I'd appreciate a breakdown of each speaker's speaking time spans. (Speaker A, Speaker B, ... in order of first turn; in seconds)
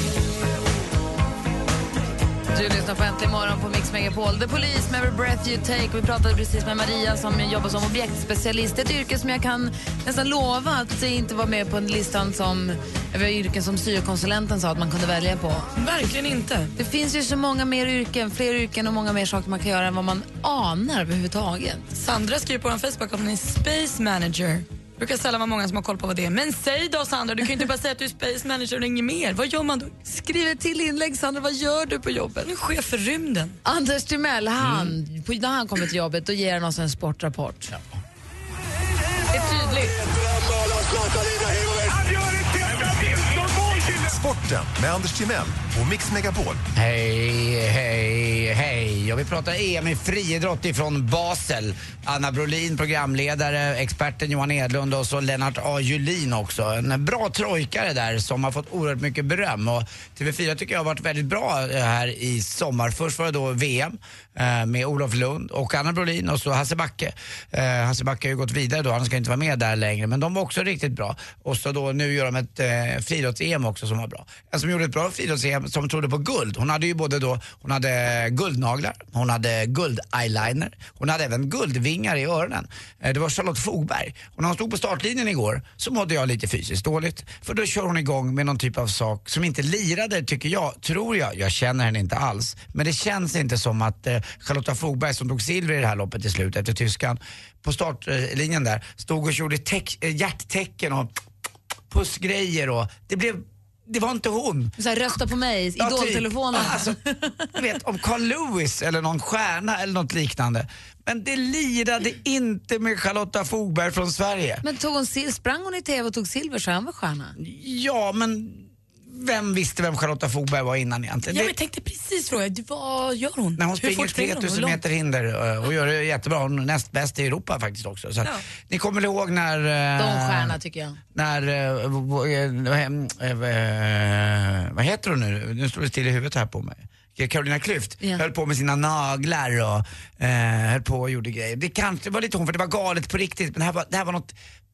Speaker A: 2.5-15.7, 16.8-21.9, 30.0-32.5, 33.6-37.7, 104.8-107.5, 114.6-117.3, 130.0-131.0
Speaker B: 15.8-16.7, 21.9-29.9, 32.4-33.6, 39.3-40.0, 121.3-124.8
Speaker C: 34.6-34.9, 37.7-38.0, 46.7-101.1, 101.9-104.7, 105.8-107.0, 107.5-114.6, 117.4-121.5, 123.6-130.6, 131.1-144.3
Speaker D: 40.1-46.6